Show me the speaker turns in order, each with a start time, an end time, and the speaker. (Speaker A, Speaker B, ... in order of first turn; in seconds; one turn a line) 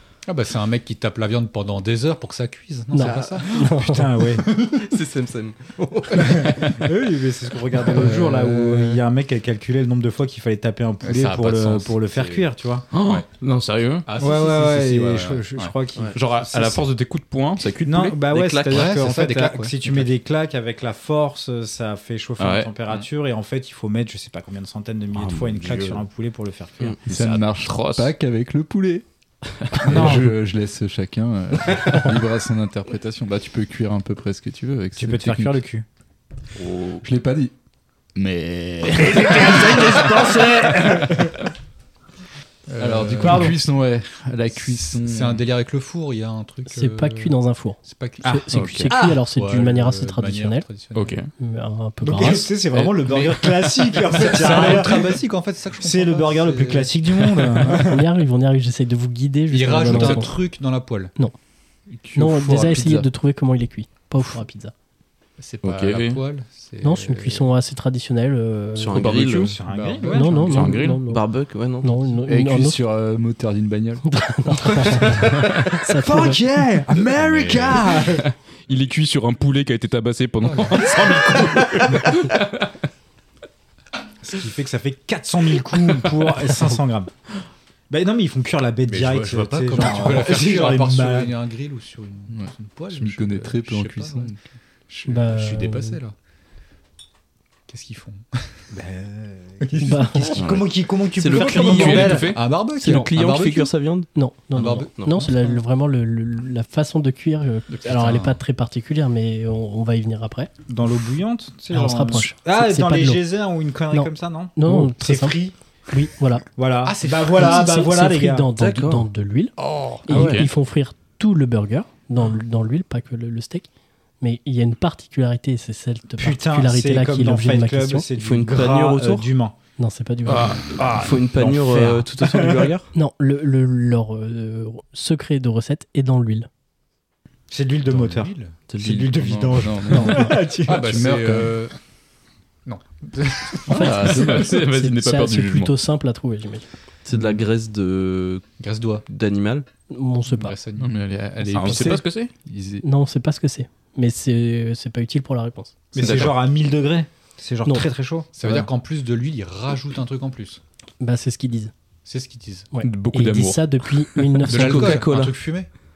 Speaker A: 0.2-3.6
Speaker B: 2.9-4.2
Speaker C: 3.5-4.5
Speaker A: 4.4-4.8
Speaker D: 4.7-6.3
Speaker A: 5.8-6.8
Speaker C: 6.2-12.9
Speaker A: 7.9-9.0
Speaker A: 11.0-13.2
Speaker E: 12.9-14.1
Speaker A: 14.1-15.7
Speaker C: 14.2-16.8
Speaker E: 16.1-18.2
Speaker C: 17.8-26.9
Speaker D: 18.2-18.8
Speaker A: 18.7-20.1
Speaker E: 22.4-22.7
Speaker E: 25.1-26.0
Speaker E: 27.1-28.1
Speaker F: 27.1-29.1
Speaker F: 29.7-35.6
Speaker C: 29.8-30.3
Speaker C: 35.0-35.8
Speaker E: 36.5-37.0
Speaker F: 37.0-37.5
Speaker F: 38.1-40.0
Speaker C: 38.9-41.4
Speaker A: 42.7-43.5
Speaker F: 42.8-45.4
Speaker C: 43.2-43.6
Speaker A: 44.9-51.2
Speaker B: 46.7-50.6
Speaker E: 48.5-48.9
Speaker E: 50.9-51.3
Speaker B: 51.4-52.5
Speaker C: 52.0-55.2
Speaker A: 52.7-57.8
Speaker C: 55.8-58.0
Speaker B: 57.7-60.4
Speaker A: 59.5-61.1
Speaker F: 61.9-63.1
Speaker B: 62.1-64.7
Speaker A: 65.4-67.5
Speaker E: 65.6-66.2
Speaker B: 66.8-69.1
Speaker D: 68.7-69.6
Speaker E: 68.9-69.6
Speaker C: 69.5-70.8
Speaker A: 69.6-70.8
Speaker B: 70.1-71.2
Speaker E: 70.4-71.0
Speaker D: 71.0-72.0
Speaker B: 71.8-72.8
Speaker F: 72.3-74.0
Speaker B: 74.0-76.4
Speaker C: 76.0-78.2
Speaker A: 77.2-77.8
Speaker E: 78.0-82.7
Speaker A: 80.4-81.4
Speaker C: 84.2-87.1
Speaker C: 87.9-91.3
Speaker A: 88.9-94.3
Speaker F: 92.3-94.4
Speaker A: 94.9-96.1
Speaker B: 95.1-96.0
Speaker A: 97.7-98.6
Speaker C: 98.7-102.3
Speaker A: 99.6-100.4
Speaker B: 99.8-100.4
Speaker E: 100.3-102.6
Speaker D: 101.2-102.1
Speaker A: 101.6-103.7
Speaker D: 102.8-104.1
Speaker B: 104.1-110.5
Speaker A: 104.5-105.6
Speaker D: 104.9-105.3
Speaker A: 107.7-108.4
Speaker C: 110.7-115.5
Speaker B: 111.7-113.2
Speaker B: 113.9-115.4
Speaker B: 115.9-116.4
Speaker C: 116.5-118.5
Speaker A: 116.8-117.8
Speaker B: 117.3-123.7
Speaker D: 118.5-119.1
Speaker A: 119.6-120.3
Speaker E: 120.1-120.5
Speaker B: 124.2-128.1
Speaker C: 126.2-129.5
Speaker D: 128.2-129.3
Speaker B: 129.8-130.6
Speaker E: 130.3-130.7
Speaker D: 130.5-132.9
Speaker C: 130.6-132.7
Speaker B: 132.9-136.5
Speaker C: 137.5-140.9
Speaker A: 137.8-138.7
Speaker D: 138.7-139.1
Speaker F: 138.8-141.6
Speaker A: 140.0-141.8
Speaker A: 142.7-143.9
Speaker E: 143.7-145.7
Speaker B: 143.7-146.7
Speaker D: 147.0-148.4
Speaker A: 148.6-149.0
Speaker D: 149.1-149.7
Speaker B: 149.9-150.6
Speaker A: 150.3-152.0
Speaker F: 150.8-152.8
Speaker E: 151.5-152.3
Speaker B: 152.8-155.7
Speaker C: 155.9-158.7
Speaker E: 156.0-156.3
Speaker A: 158.3-160.6
Speaker B: 161.0-161.7
Speaker A: 162.1-162.7
Speaker B: 162.7-164.9
Speaker E: 162.8-165.0
Speaker A: 164.5-165.7
Speaker D: 164.5-165.3